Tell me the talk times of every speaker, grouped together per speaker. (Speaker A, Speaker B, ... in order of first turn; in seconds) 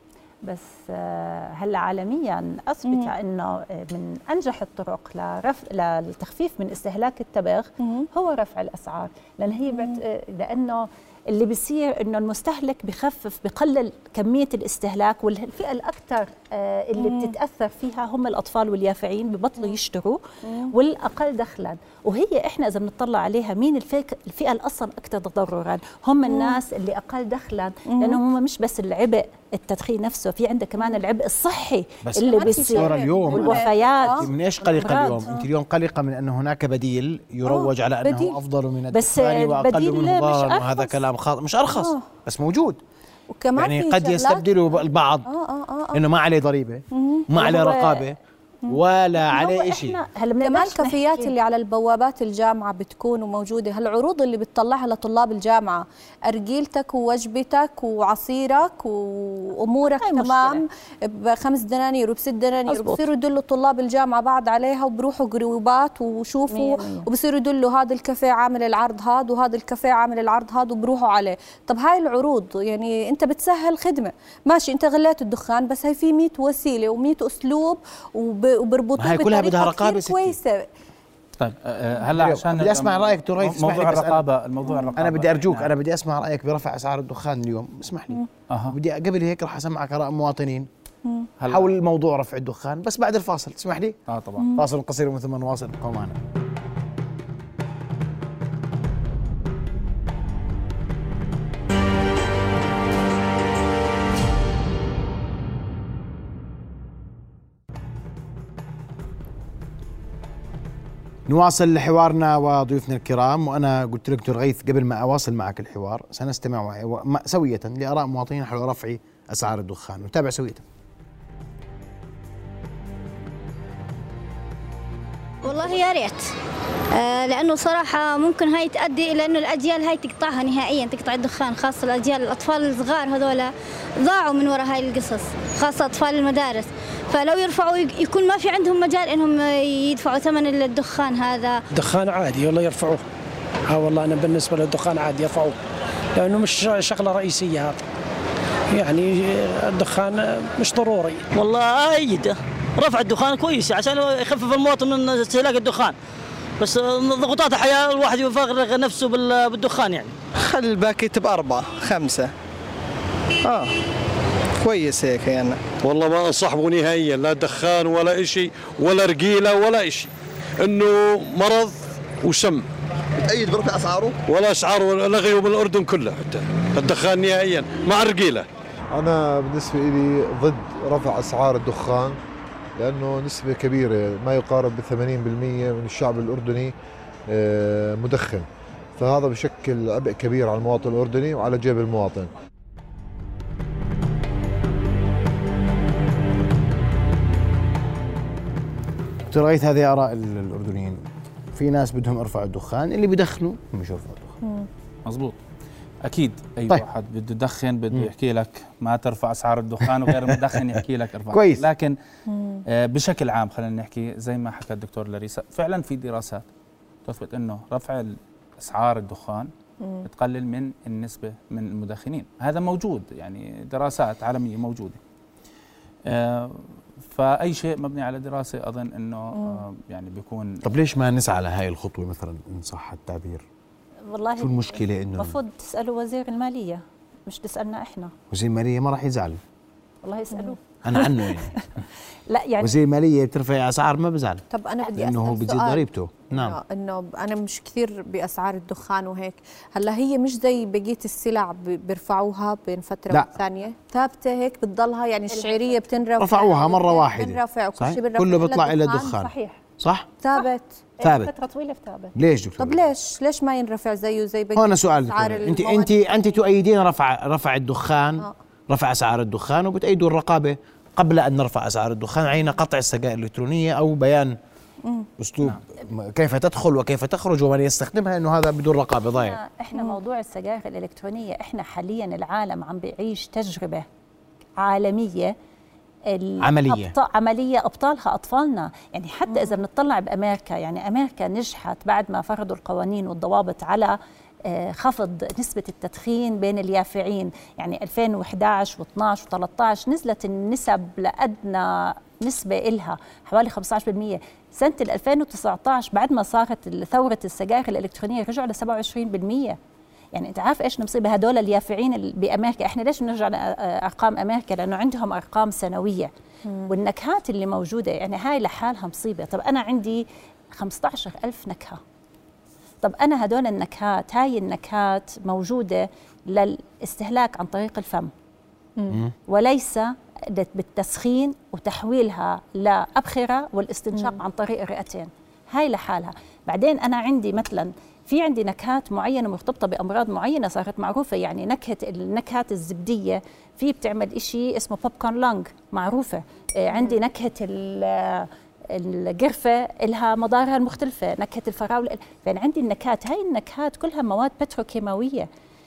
Speaker A: 0.4-35.4, 38.9-41.0, 47.4-48.0, 49.3-51.3, 59.9-60.6, 62.7-63.0, 66.5-67.1, 234.1-238.1, 240.0-241.7, 242.3-242.7, 255.3-255.8, 259.1-259.6, 261.0-262.1, 279.1-283.9, 284.6-285.3, 286.1-309.6, 310.1-316.1, 316.7-321.8, 322.8-328.1, 329.3-355.3
Speaker B: 2.9-3.1, 7.8-8.1, 9.7-10.0, 17.0-17.3, 20.4-20.7, 26.3-26.6, 27.9-28.2, 32.2-34.3, 37.4-38.4, 41.7-42.0, 43.3-44.5, 45.2-46.0, 46.9-47.3, 50.4-80.7, 84.6-84.9, 94.4-94.7, 204.4-204.7, 212.3-212.6, 229.3-229.6, 244.5-259.1, 260.2-260.7, 262.6-266.0, 274.8-275.1, 289.3-289.6, 316.4-316.7, 333.9-334.2, 346.7-347.0
Speaker C: 32.0-42.8, 43.5-45.3, 45.9-50.0, 79.0-80.4, 82.1-84.2, 85.0-90.7, 91.5-94.0, 94.5-96.2, 111.3-120.6, 199.3-201.0, 201.5-204.4, 209.9-210.6, 211.3-211.6, 230.6-233.4, 234.4-235.4, 238.3-239.4, 240.8-241.5, 242.6-246.6, 256.2-260.1, 261.0-261.3, 262.1-262.8, 264.6-274.4, 275.2-279.4, 286.4-286.9
Speaker D: 81.4-85.7, 88.5-88.8, 91.4-91.7, 94.1-94.5, 205.0-205.4, 206.0-211.9, 212.7-216.4, 217.0-219.5, 220.0-225.0, 226.1-230.6
Speaker E: 125.4-126.3, 126.9-141.6
Speaker F: 141.7-143.1, 143.7-145.6, 146.2-147.8, 148.7-151.2
Speaker G: 151.3-155.9, 156.6-160.1
Speaker H: 160.4-162.3, 163.4-163.7, 164.6-165.6
Speaker I: 165.8-172.6, 174.2-178.4
Speaker J: 178.9-182.2, 182.8-186.7, 187.3-192.3